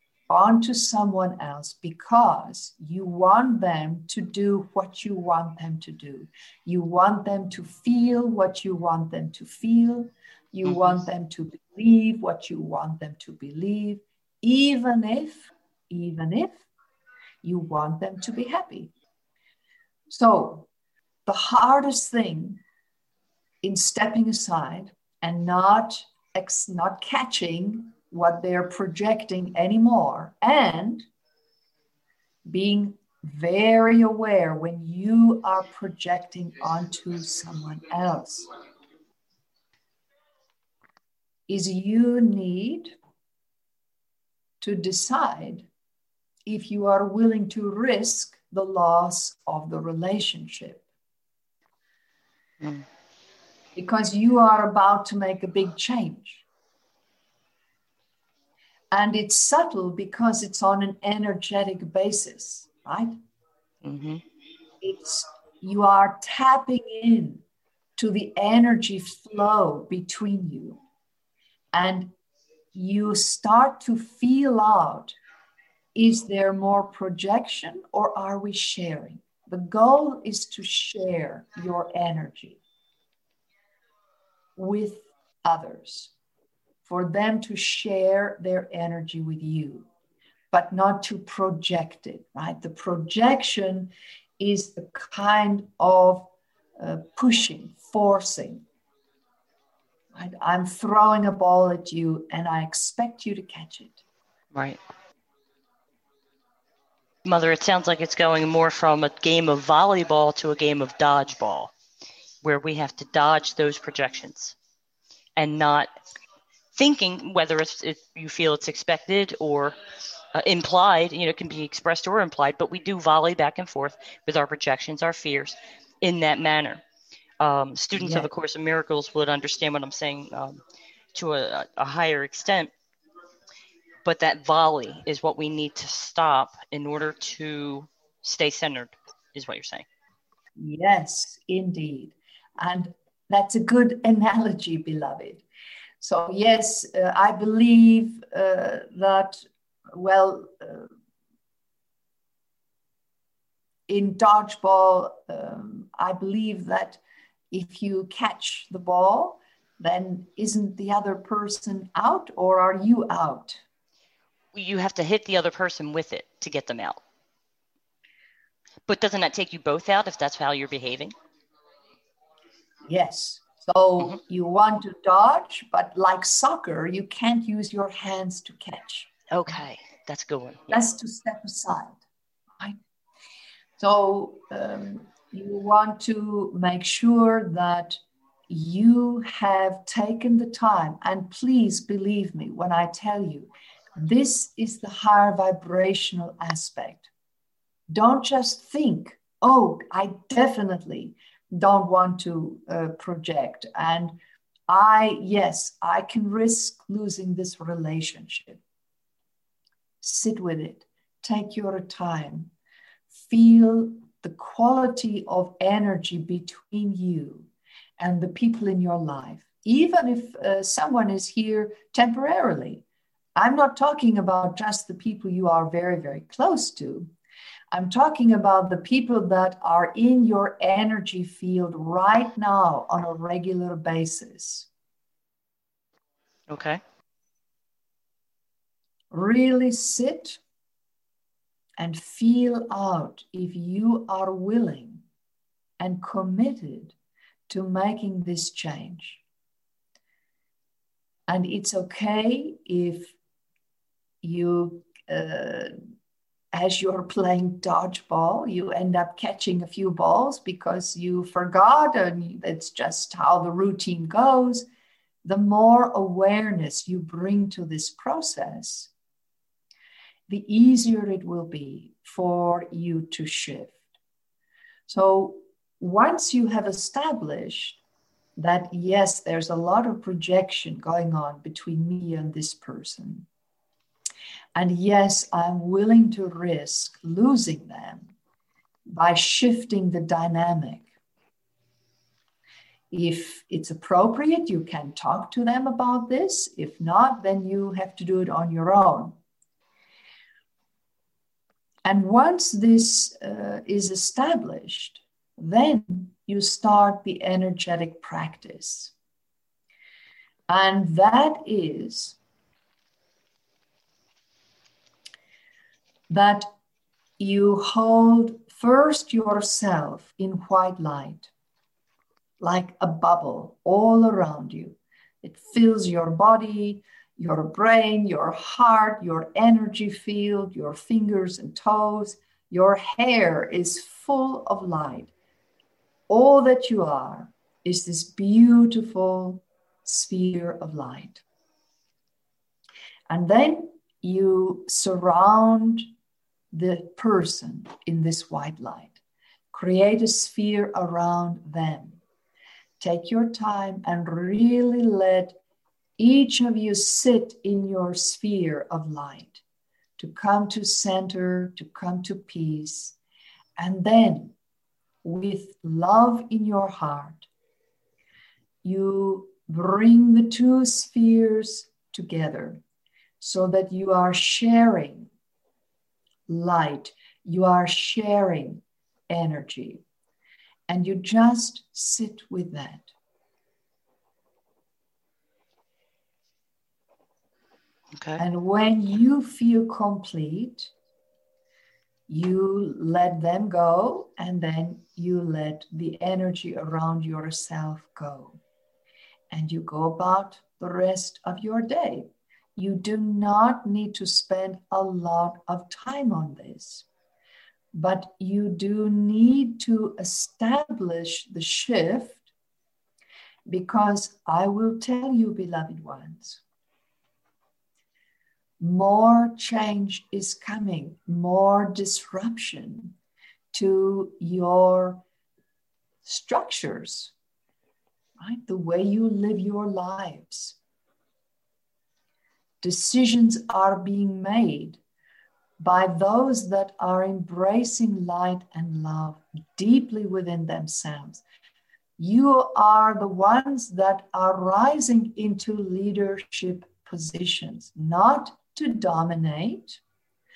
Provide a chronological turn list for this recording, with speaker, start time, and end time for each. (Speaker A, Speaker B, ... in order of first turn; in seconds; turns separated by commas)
Speaker A: 0.3-16.6, Speaker B: 10.6-11.0, Speaker A: 17.4-18.9, Speaker A: 20.1-20.7, Speaker A: 21.2-22.6, Speaker A: 23.6-31.1, Speaker A: 32.5-38.5, Speaker A: 41.5-42.9, Speaker A: 44.6-45.7, Speaker A: 46.5-50.8, Speaker B: 52.6-52.9, Speaker A: 53.8-56.4, Speaker A: 58.9-63.1, Speaker B: 63.8-64.2, Speaker A: 64.8-67.4, Speaker A: 68.0-70.8, Speaker A: 71.7-72.1, Speaker A: 72.7-75.1, Speaker A: 75.9-82.6, Speaker A: 84.6-86.1, Speaker A: 86.8-89.9, Speaker A: 90.5-98.6, Speaker A: 100.1-104.0, Speaker B: 104.5-104.8, Speaker B: 107.2-111.7, Speaker B: 112.4-114.5, Speaker B: 115.3-115.9, Speaker B: 116.7-119.8, Speaker B: 120.3-126.8, Speaker B: 127.4-130.6, Speaker A: 128.0-128.3, Speaker B: 131.1-132.7, Speaker B: 134.0-139.8, Speaker A: 140.6-145.4, Speaker A: 146.0-150.9, Speaker A: 153.9-157.0, Speaker A: 157.5-163.6, Speaker B: 164.5-167.0, Speaker B: 168.8-171.1, Speaker A: 172.8-179.1, Speaker B: 179.3-180.8, Speaker A: 180.7-182.0, Speaker A: 183.8-197.1, Speaker A: 197.9-204.2, Speaker A: 204.7-208.6, Speaker A: 210.0-212.5, Speaker A: 213.3-217.5, Speaker A: 218.0-222.8, Speaker A: 223.3-227.1, Speaker A: 227.7-234.7, Speaker B: 236.5-236.8, Speaker A: 239.1-240.4, Speaker A: 241.8-245.0, Speaker A: 245.8-246.9, Speaker A: 247.5-249.2, Speaker A: 251.3-253.1, Speaker A: 254.2-255.7, Speaker A: 256.5-264.7, Speaker A: 265.2-268.9, Speaker A: 270.3-273.8, Speaker A: 274.9-277.8, Speaker A: 278.4-283.2, Speaker A: 284.5-288.1, Speaker A: 288.9-290.9, Speaker A: 292.9-299.1, Speaker A: 301.8-308.9, Speaker A: 310.5-312.2, Speaker A: 316.1-316.5, Speaker A: 317.2-321.3, Speaker A: 322.4-335.1, Speaker A: 336.1-341.2, Speaker A: 343.1-345.9, Speaker A: 346.5-348.9, Speaker A: 349.5-352.0, Speaker A: 352.8-355.4, Speaker A: 356.0-359.4, Speaker A: 360.0-362.9, Speaker A: 363.6-364.3, Speaker A: 365.0-367.3, Speaker A: 368.6-372.6, Speaker A: 373.2-375.1, Speaker A: 376.3-379.8, Speaker A: 380.7-382.9, Speaker B: 387.9-388.2, Speaker A: 388.2-390.7, Speaker A: 392.1-398.4, Speaker A: 399.3-406.9, Speaker A: 407.7-412.2, Speaker A: 413.5-416.4, Speaker A: 418.6-422.9, Speaker A: 423.5-425.0, Speaker A: 426.0-427.1, Speaker A: 428.2-430.6, Speaker A: 432.6-434.8, Speaker A: 435.6-441.2, Speaker A: 442.0-449.8